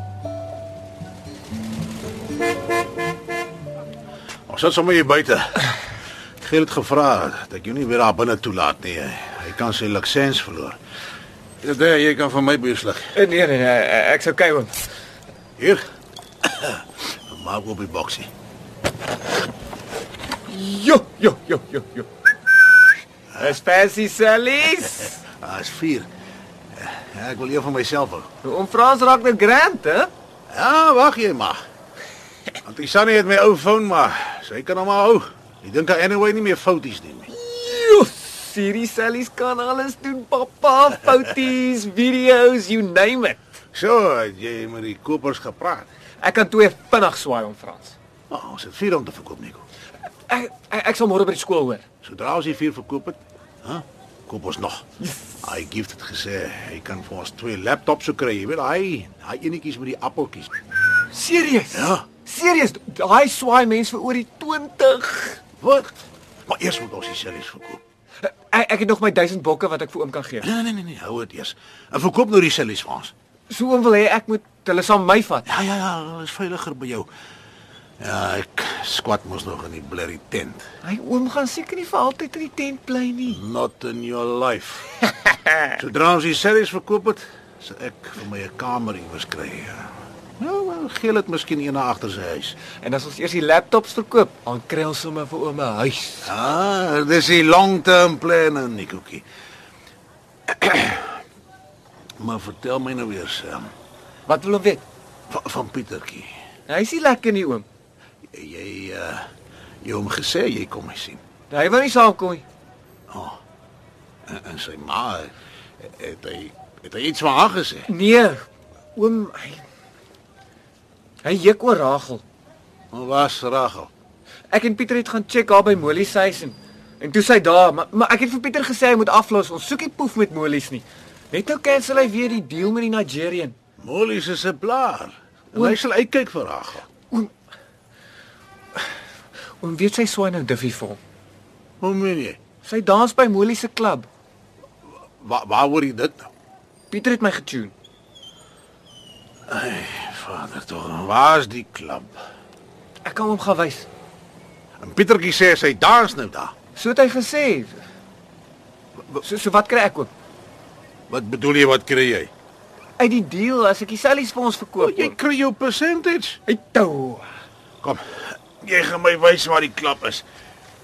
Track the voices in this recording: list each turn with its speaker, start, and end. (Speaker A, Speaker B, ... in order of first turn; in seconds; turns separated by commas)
Speaker A: 4.5-5.7, Speaker A: 6.4-10.8, Speaker A: 11.6-13.1, Speaker B: 13.1-14.7, Speaker A: 16.4-18.3, Speaker B: 20.5-22.1, Speaker B: 23.4-25.2, Speaker A: 25.4-26.1, Speaker A: 26.7-28.3, Speaker B: 28.4-30.1, Speaker A: 30.5-31.6, Speaker A: 32.6-37.3, Speaker B: 37.3-43.4, Speaker A: 43.7-45.9, Speaker B: 46.2-48.0, Speaker A: 48.3-49.6, Speaker B: 50.3-51.8, Speaker A: 52.0-54.8, Speaker A: 55.4-60.5, Speaker B: 61.1-65.4, Speaker A: 61.7-62.0, Speaker A: 65.6-65.9, Speaker A: 66.5-67.8, Speaker B: 68.5-70.5, Speaker A: 70.4-73.1, Speaker B: 73.5-75.5, Speaker A: 75.5-77.1, Speaker A: 78.0-80.6, Speaker B: 80.8-83.4, Speaker A: 83.3-84.9, Speaker A: 85.8-92.6, Speaker B: 92.8-96.3, Speaker A: 96.2-99.2, Speaker A: 100.5-101.1, Speaker A: 102.2-103.7, Speaker B: 104.3-104.8, Speaker A: 105.3-106.3, Speaker B: 106.7-107.7, Speaker A: 108.3-109.2, Speaker A: 109.8-111.2, Speaker B: 111.5-112.4, Speaker A: 113.1-113.4, Speaker A: 114.3-115.3, Speaker A: 115.8-117.9, Speaker B: 117.9-119.7, Speaker B: 121.2-122.2, Speaker A: 122.9-123.9, Speaker B: 124.5-133.6, Speaker A: 133.8-136.9, Speaker B: 139.6-141.0, Speaker A: 141.8-142.4, Speaker B: 142.6-144.1, Speaker A: 145.2-146.3, Speaker B: 146.9-147.7, Speaker A: 149.5-152.1, Speaker B: 153.0-153.9, Speaker A: 154.8-156.5, Speaker B: 156.8-157.8, Speaker B: 159.2-160.1, Speaker A: 161.1-162.3, Speaker B: 163.0-165.2, Speaker A: 164.8-166.4, Speaker B: 166.5-167.3, Speaker A: 167.8-170.2